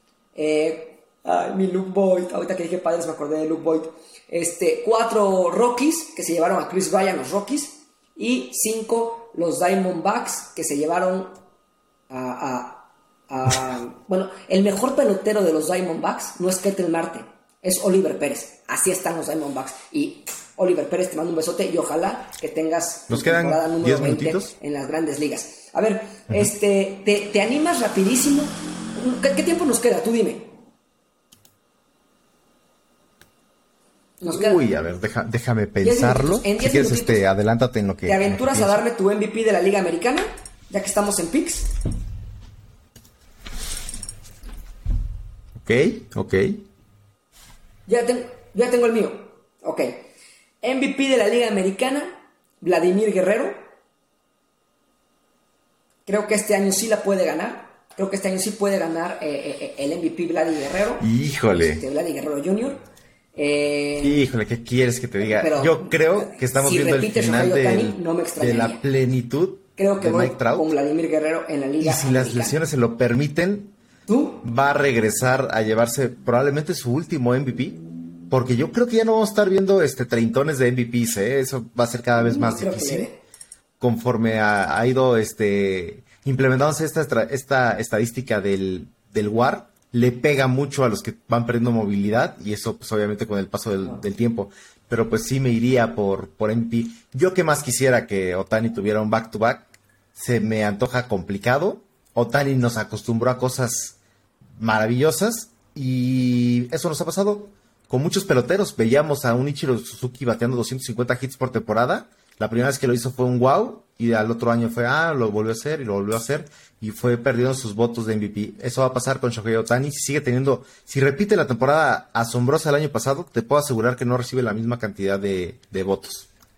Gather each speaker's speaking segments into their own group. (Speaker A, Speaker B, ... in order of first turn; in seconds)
Speaker A: 0.3-11.4, 12.1-30.6, 34.2-34.6, 35.8-37.2, 38.0-41.7, 47.9-50.1, 50.6-53.5, 56.0-62.8, 63.3-64.2, 65.2-68.8, 69.8-72.6, 74.1-74.4, 82.2-83.2
Speaker B: 23.1-24.5, 34.3-38.8, 45.6-46.6, 61.0-61.8, 64.0-70.7, 71.8-73.7, 74.4-77.8, 78.3-83.1, 83.8-104.0, 104.6-126.3